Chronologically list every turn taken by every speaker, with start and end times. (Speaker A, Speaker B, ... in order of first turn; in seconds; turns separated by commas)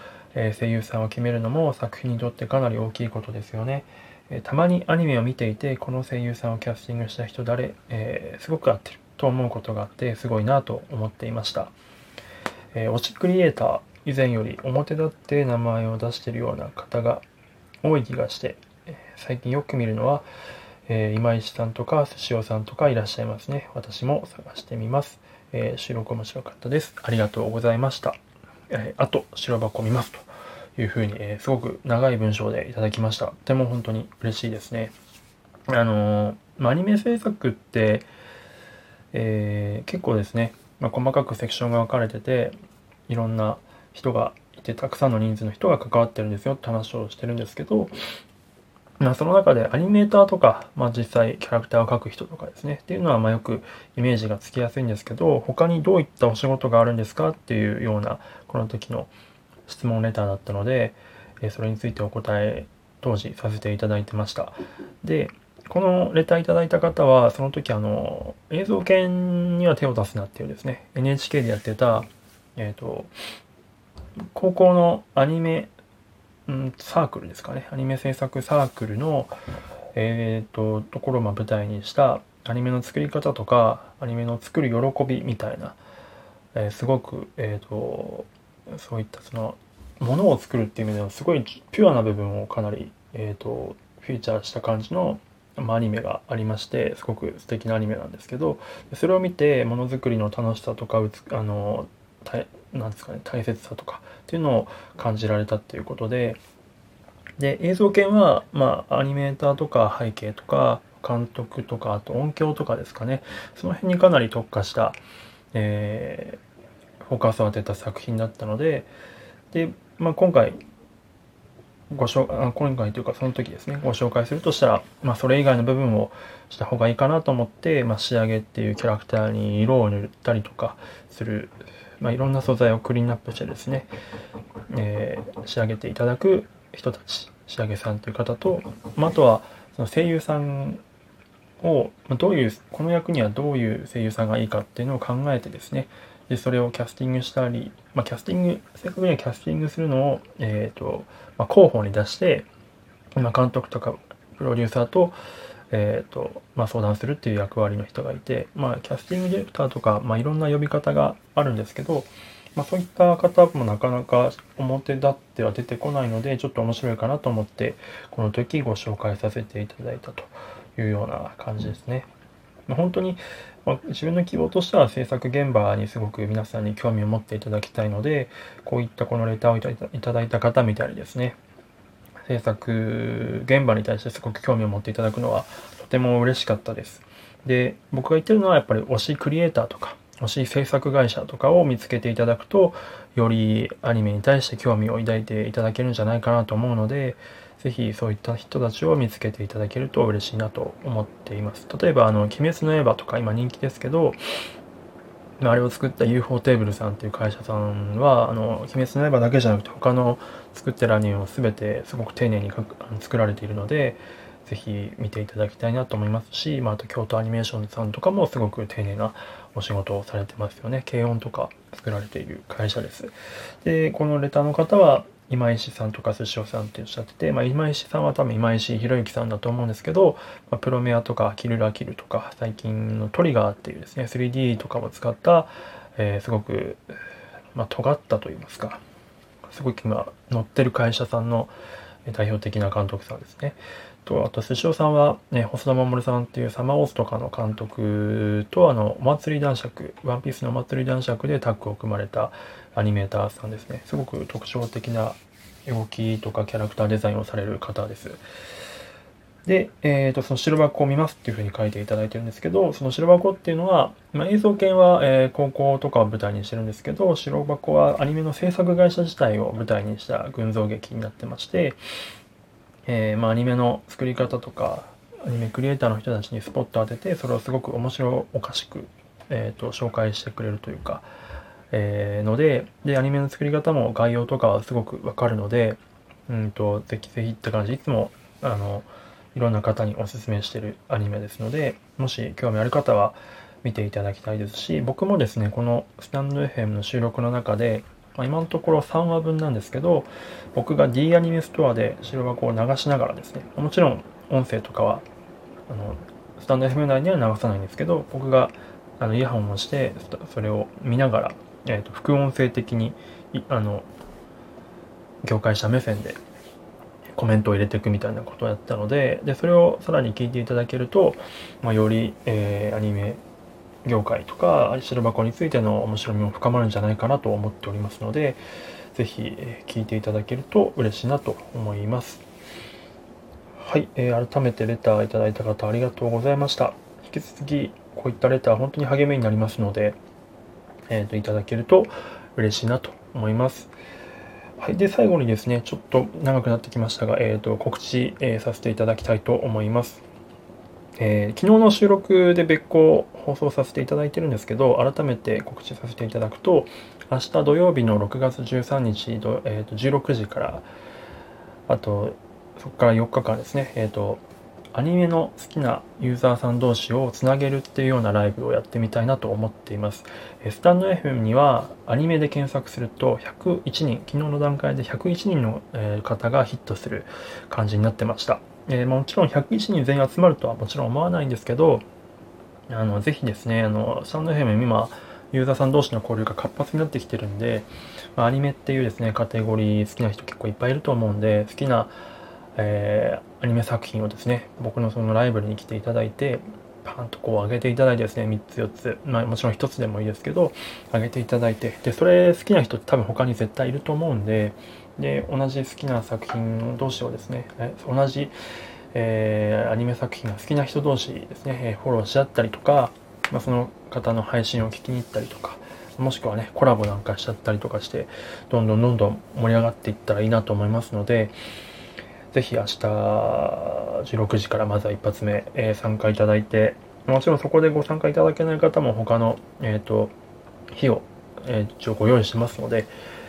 Speaker A: 0.3-11.7, Speaker A: 12.7-17.2, Speaker A: 17.8-20.3, Speaker A: 20.9-28.2, Speaker A: 28.7-34.9, Speaker A: 35.7-38.1, Speaker A: 39.1-42.5, Speaker A: 43.1-47.9, Speaker A: 49.0-59.1, Speaker A: 59.7-73.1, Speaker A: 74.3-75.7, Speaker A: 76.5-79.3, Speaker A: 80.0-85.8, Speaker A: 86.5-106.4, Speaker A: 107.4-115.0, Speaker A: 115.5-116.4, Speaker A: 117.0-118.9, Speaker A: 119.5-120.6, Speaker A: 121.9-133.9, Speaker A: 134.7-140.8, Speaker A: 141.6-152.5, Speaker A: 153.2-155.2, Speaker A: 155.7-172.1, Speaker A: 172.7-181.4, Speaker A: 182.3-204.2, Speaker A: 205.4-236.9, Speaker A: 237.5-238.8, Speaker A: 239.5-241.5, Speaker A: 242.1-258.2, Speaker A: 259.4-271.8, Speaker A: 272.9-281.1, Speaker A: 281.7-305.1, Speaker A: 305.7-313.9, Speaker A: 315.2-316.2, Speaker A: 317.1-323.2, Speaker A: 323.9-328.4, Speaker A: 328.9-332.2, Speaker A: 333.6-340.0, Speaker A: 340.9-343.7, Speaker A: 344.6-350.1, Speaker A: 351.0-360.7, Speaker A: 361.7-364.2, Speaker A: 364.7-381.9, Speaker A: 382.7-391.9, Speaker A: 392.6-408.3, Speaker A: 408.9-421.3, Speaker A: 422.3-430.1, Speaker A: 430.7-432.9